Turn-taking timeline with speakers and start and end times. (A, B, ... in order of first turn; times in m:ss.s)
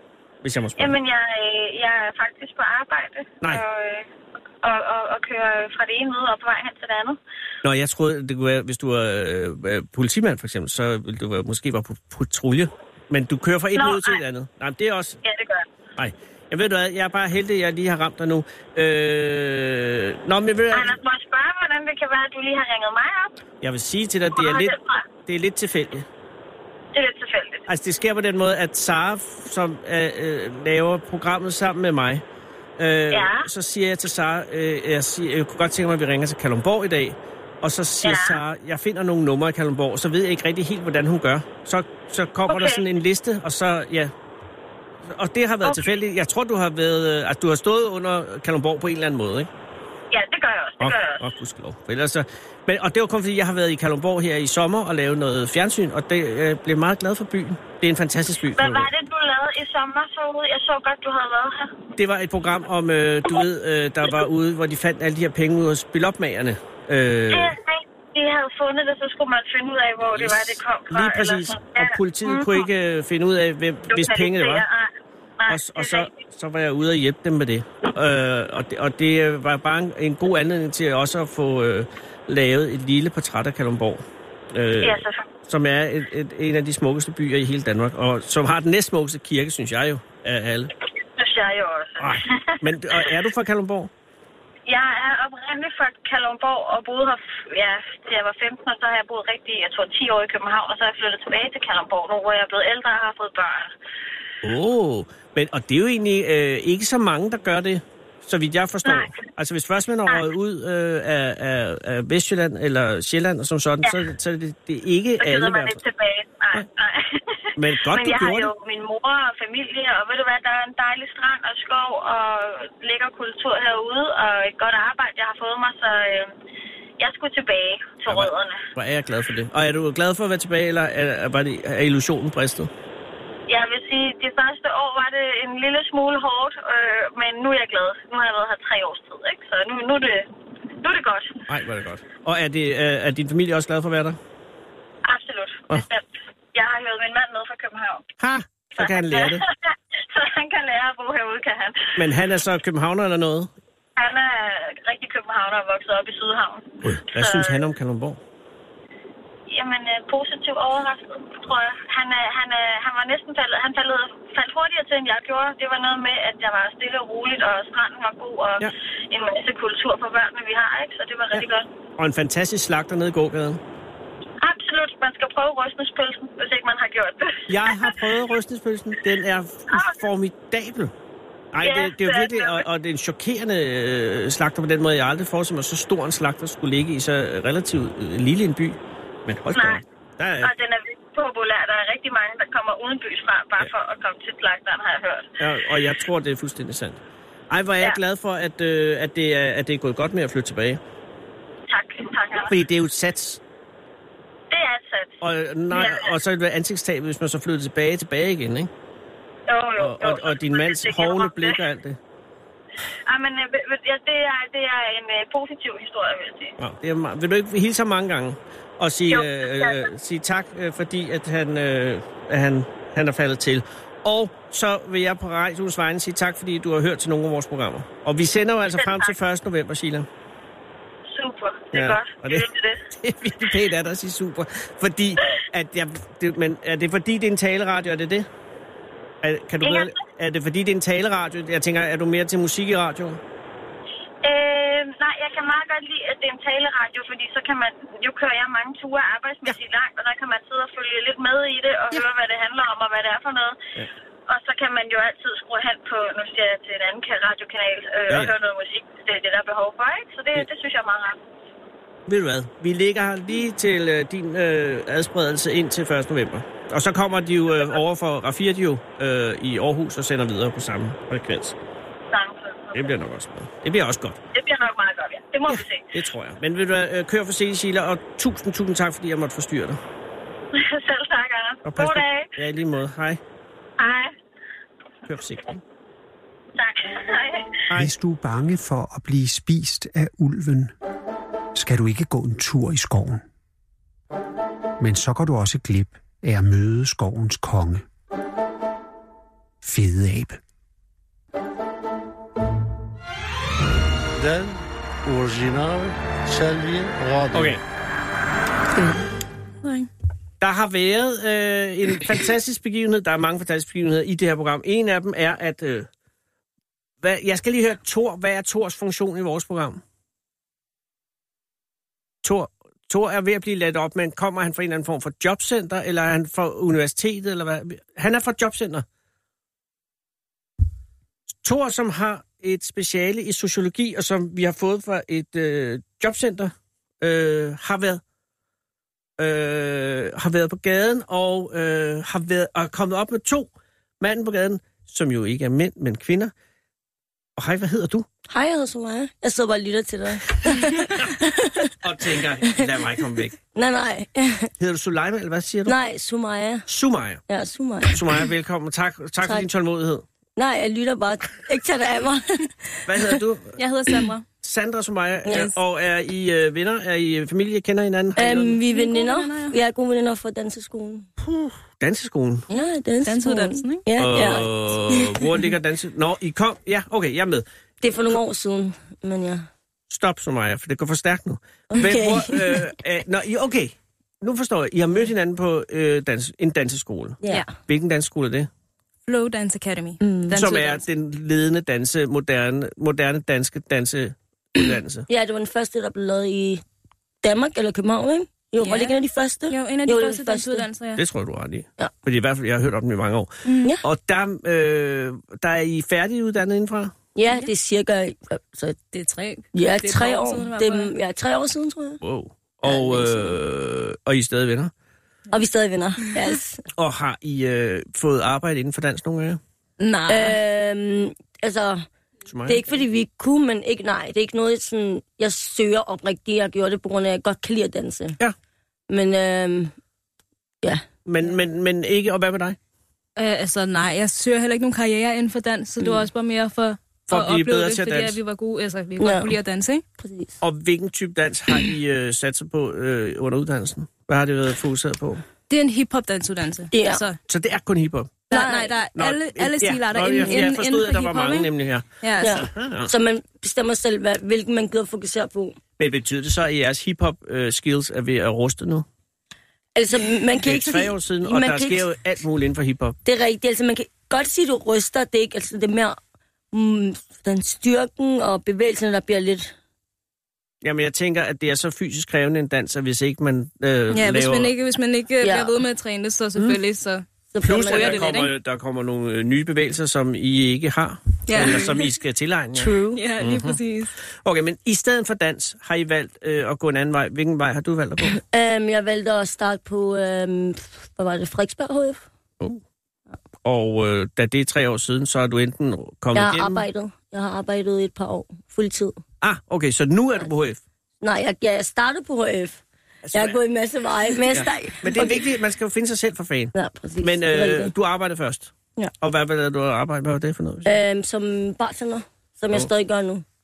0:00.4-0:01.0 A
0:00.8-0:04.1 B
0:04.6-0:07.2 B
0:07.6-0:15.2 A
0:13.8-0:14.2 B
0:15.2-0:15.7 B
0:16.0-0:21.0 A
0:20.7-0:23.4 B
0:23.6-0:26.1 A
0:24.4-0:25.1 B
0:26.9-0:27.7 B
0:27.7-0:32.2 A
0:32.8-0:44.1 A
0:33.1-0:33.5 B
0:38.0-0:38.4 B
0:42.5-0:42.8 B
0:45.1-0:49.5 A
0:45.6-0:46.0 B
0:50.1-0:51.3 B
0:50.8-0:58.9 A
0:58.6-1:01.7 B
1:02.0-1:07.6 A
1:07.3-1:12.7 B
1:10.1-1:14.7 A
1:13.9-1:16.2 B
1:15.5-1:30.7 A
1:24.8-1:25.3 B
1:31.0-1:32.6 B
1:32.0-1:33.9 A
1:34.7-1:43.7 B
1:44.4-1:55.8 A
1:48.8-1:49.2 B
1:55.2-2:06.4 B
1:57.6-1:58.5 A
2:07.0-2:08.6 B
2:08.1-2:12.7 A
2:13.5-2:21.4 B
2:21.5-2:24.2 A
2:25.1-2:28.1 B
2:28.2-2:29.4 A
2:28.8-2:31.9 B
2:32.0-2:33.5 A
2:34.0-2:37.6 B
2:36.8-2:38.2 A
2:39.5-2:51.7 B
2:52.0-2:53.6 A
2:54.4-2:58.0 B
2:57.5-3:00.9 A
2:59.7-3:00.0 B
3:01.5-3:10.5 A
3:01.6-3:02.6 B
3:09.5-3:09.8 B
3:10.4-3:15.3 B
3:15.4-3:20.8 A
3:21.7-3:22.5 B
3:22.5-3:23.4 A
3:24.5-3:26.1 B
3:25.2-3:28.7 A
3:29.5-3:31.6 B
3:29.8-3:32.0 A
3:33.1-3:36.6 B
3:36.6-3:50.1 A
3:39.1-3:39.9 B
3:48.7-3:49.1 B
3:51.1-3:52.8 B
3:51.7-3:58.3 A
3:59.2-4:03.2 A
3:59.6-4:00.0 B
4:04.2-4:13.6 B
4:14.3-4:21.2 B
4:18.1-4:18.3 A
4:22.1-4:31.6 A
4:32.1-4:32.9 B
4:32.7-4:34.2 A
4:34.3-4:35.9 B
4:35.5-4:39.8 A
4:40.5-4:42.3 B
4:41.6-4:43.2 A
4:43.8-4:44.1 B
4:45.1-4:45.6 A
4:46.6-4:47.6 B
4:47.7-4:50.7 C
4:51.6-4:53.2 C
4:54.8-4:57.8 C
4:59.6-5:00.4 C
5:04.2-5:07.6 D
5:07.3-5:07.6 A
5:09.6-5:09.9 E
5:10.4-5:15.9 A
5:17.0-5:19.8 A
5:22.2-5:28.8 A
5:31.4-5:38.0 A
5:39.2-5:46.3 A
5:47.4-5:48.1 A
5:48.3-5:51.7 F
5:51.8-5:53.4 A
5:53.5-5:54.5 F
5:54.6-5:55.7 A
5:55.7-5:56.6 F
5:56.7-5:57.2 A
5:57.3-5:58.2 F
5:57.9-6:00.0 A
6:00.4-6:03.0 F
6:02.9-6:03.6 A
6:03.6-6:04.2 E
6:04.4-6:08.6 A
6:08.2-6:11.1 F
6:08.7-6:09.6 E
6:11.2-6:12.5 A
6:12.5-6:15.2 F
6:13.0-6:14.4 E
6:14.0-6:17.5 A
6:17.8-6:19.5 F
6:19.9-6:28.5 A
6:21.7-6:22.7 F
6:29.1-6:30.8 E
6:30.0-6:30.4 F
6:30.3-6:35.1 A
6:35.1-6:36.6 F
6:37.2-6:40.7 F
6:38.6-6:39.0 E
6:39.5-6:41.0 E
6:41.0-6:47.0 A
6:43.5-6:43.8 E
6:47.2-6:48.8 F
6:48.9-6:50.9 E
6:49.5-6:52.0 F
6:52.0-6:54.7 A
6:52.6-6:53.4 F
6:55.3-6:56.6 F
6:56.8-6:59.4 A
6:59.8-7:00.4 E
7:00.1-7:01.8 F
7:02.3-7:02.7 A
7:02.5-7:08.2 F
7:08.9-7:09.7 F
7:11.0-7:12.6 A
7:13.2-7:19.8 E
7:15.8-7:16.1 F
7:17.1-7:18.2 A
7:19.0-7:19.3 F
7:20.0-7:20.4 F
7:20.4-7:25.2 A
7:25.5-7:27.2 E
7:26.7-7:27.0 F
7:27.3-7:28.2 A
7:28.3-7:28.8 F
7:28.3-7:32.4 E
7:29.0-7:32.9 A
7:32.2-7:35.6 F
7:35.8-7:38.9 A
7:39.8-7:41.9 F
7:40.4-7:43.0 A
7:43.0-7:46.0 F
7:46.5-7:49.5 F
7:50.6-7:54.5 A
7:53.9-7:58.3 E
7:55.2-7:55.6 F
7:57.3-7:58.1 F
7:57.4-8:03.6 A
8:01.3-8:01.7 E
8:02.6-8:03.0 F
8:02.9-8:03.9 E
8:04.2-8:08.2 A
8:08.1-8:12.0 F
8:13.4-8:16.6 A
8:16.1-8:19.0 F
8:19.2-8:20.6 A
8:21.0-8:22.6 F
8:23.0-8:23.4 A
8:23.1-8:25.2 F
8:24.3-8:30.8 A
8:26.5-8:27.7 F
8:30.6-8:33.2 F